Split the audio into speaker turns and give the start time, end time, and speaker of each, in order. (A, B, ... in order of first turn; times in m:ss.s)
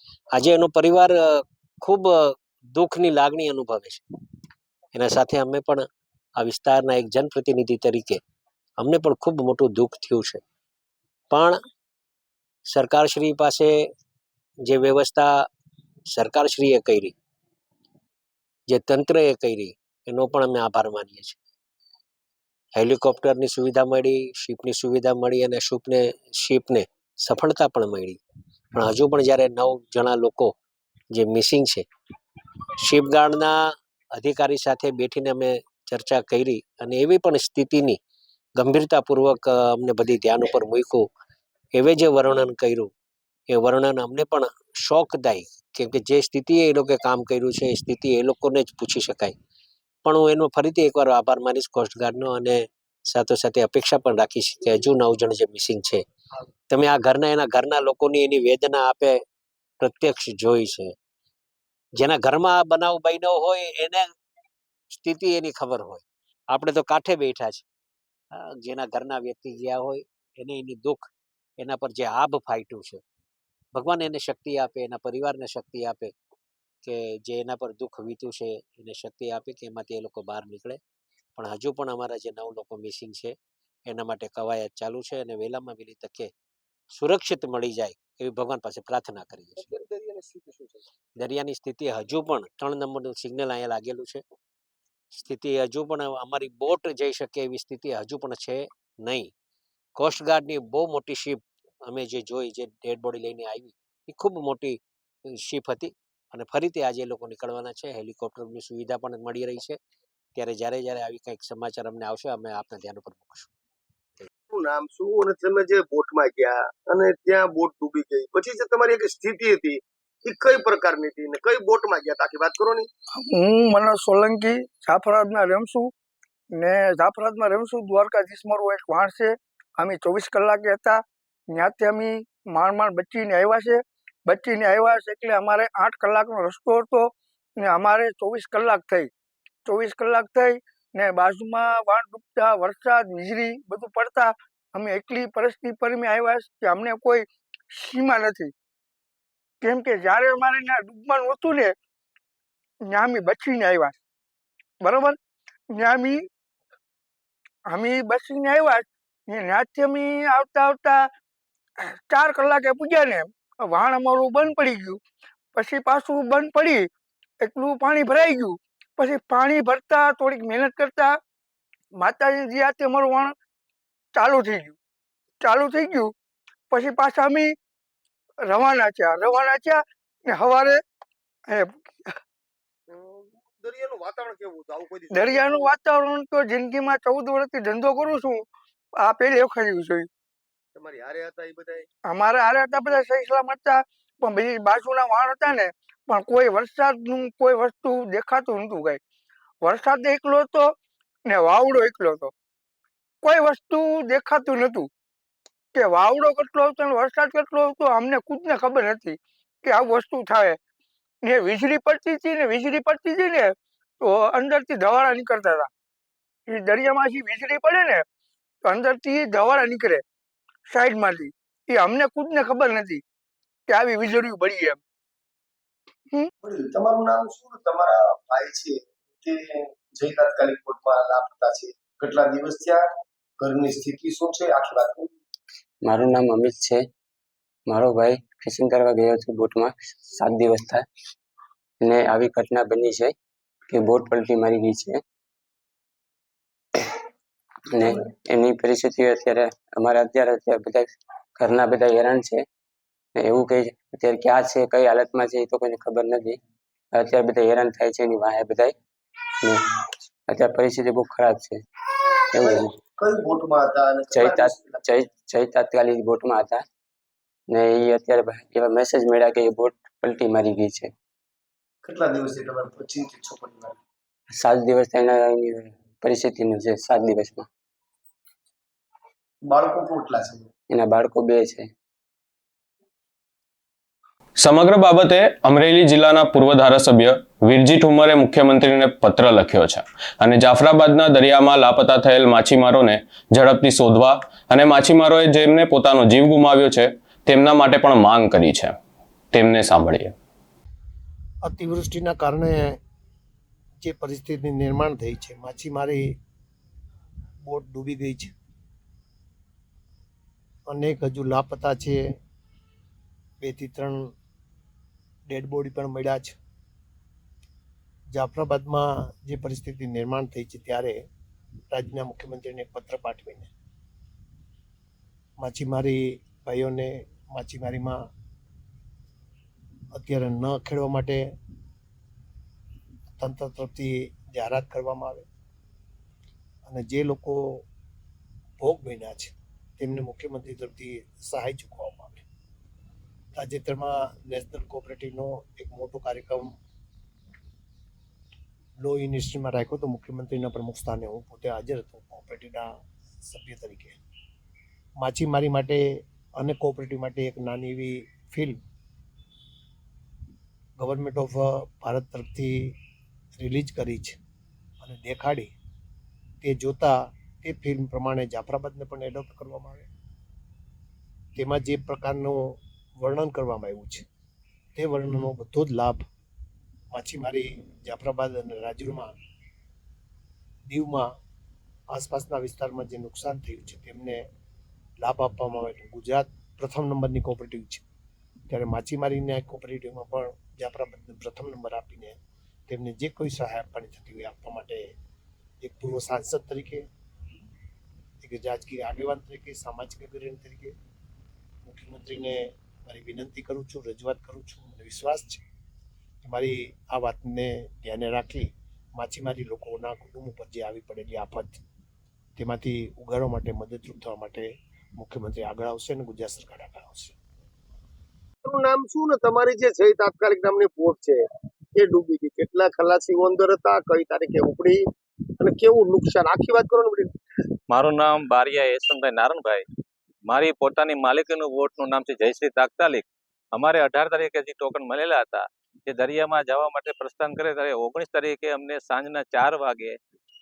0:00.3-0:04.1 A
0:04.9-0:08.2 A
0:08.8-0:10.4 A
0:11.3-0:11.6 A
0:12.7-0:13.9 A
0:14.6-0:15.5 A
0:16.1-0:17.1 A
0:18.7-0:21.4 A
0:22.7-0:28.2 A
0:28.7-0:30.5 A
0:31.1-0:31.9 A
0:32.8-0:38.0 A
0:38.6-0:41.1 A
0:41.7-0:42.9 A
0:43.5-0:49.4 A
0:50.0-0:56.0 A
0:56.7-0:59.2 A
0:59.8-1:01.0 A
1:02.0-1:04.1 A
1:04.9-1:07.6 A
1:08.3-1:13.0 A
1:13.7-1:16.1 A
1:16.8-1:20.8 A
1:21.4-1:26.3 A
1:26.9-1:29.7 A
1:29.6-1:30.8 B
1:31.2-1:34.2 A
1:35.1-1:39.3 A
1:40.0-1:49.8 A
1:50.4-1:53.5 A
1:54.5-2:02.9 B
2:03.1-2:05.9 C
2:06.5-2:19.1 C
2:19.6-2:28.5 C
2:29.6-2:31.8 C
2:32.8-2:34.0 C
2:34.8-2:35.2 C
2:35.7-2:36.3 C
2:37.7-2:41.1 C
2:41.8-2:45.0 C
2:45.5-2:46.9 C
2:47.4-2:51.2 C
2:52.0-2:53.4 C
2:54.1-2:54.8 C
2:55.4-2:56.1 C
2:56.7-2:57.6 C
2:58.4-3:00.8 C
3:01.5-3:02.2 C
3:02.9-3:05.8 B
3:05.1-3:10.1 C
3:10.8-3:11.9 B
3:12.1-3:19.0 C
3:19.6-3:22.3 C
3:23.2-3:24.9 C
3:25.7-3:30.6 C
3:31.2-3:35.7 C
3:36.5-3:38.0 C
3:38.6-3:40.0 C
3:40.7-3:43.0 C
3:43.7-3:44.8 C
3:46.4-3:49.4 B
3:49.9-3:52.8 B
3:53.4-3:55.1 B
3:55.8-3:56.8 D
3:57.7-4:00.8 D
4:01.8-4:03.1 D
4:03.7-4:05.0 D
4:07.7-4:12.4 D
4:07.8-4:08.1 B
4:13.2-4:16.4 D
4:16.9-4:18.7 D
4:20.3-4:21.6 D
4:22.3-4:24.9 B
4:22.4-4:22.8 D
4:24.1-4:26.6 D
4:27.5-4:30.9 D
4:31.8-4:33.8 B
4:34.3-4:37.5 D
4:39.5-4:40.5 B
4:40.7-4:41.7 D
4:44.4-4:58.7 E
4:59.3-5:00.1 E
5:01.4-5:02.8 F
5:03.8-5:06.1 F
5:07.4-5:08.3 F
5:10.7-5:12.0 F
5:13.4-5:14.1 F
5:15.3-5:16.4 F
5:18.1-5:21.0 F
5:21.7-5:23.5 F
5:25.4-5:28.0 F
5:29.9-5:31.3 F
5:33.2-5:35.3 F
5:36.7-5:37.6 F
5:38.6-5:42.2 F
5:43.4-5:46.5 F
5:48.8-5:52.7 F
5:53.2-5:54.0 F
5:55.0-5:58.6 F
6:00.8-6:02.8 F
6:03.4-6:04.2 F
6:04.8-6:05.5 F
6:06.4-6:09.9 F
6:11.4-6:14.0 F
6:14.8-6:16.0 F
6:16.9-6:19.1 F
6:20.7-6:21.1 F
6:21.9-6:24.2 F
6:25.0-6:27.8 F
6:28.5-6:32.2 F
6:32.7-6:34.9 F
6:35.6-6:36.9 F
6:38.2-6:40.8 F
6:41.6-6:45.4 F
6:46.2-6:51.6 F
6:52.4-6:57.2 F
6:58.4-7:01.2 B
7:01.8-7:04.8 B
7:05.4-7:07.1 B
7:07.7-7:09.6 G
7:10.3-7:20.0 G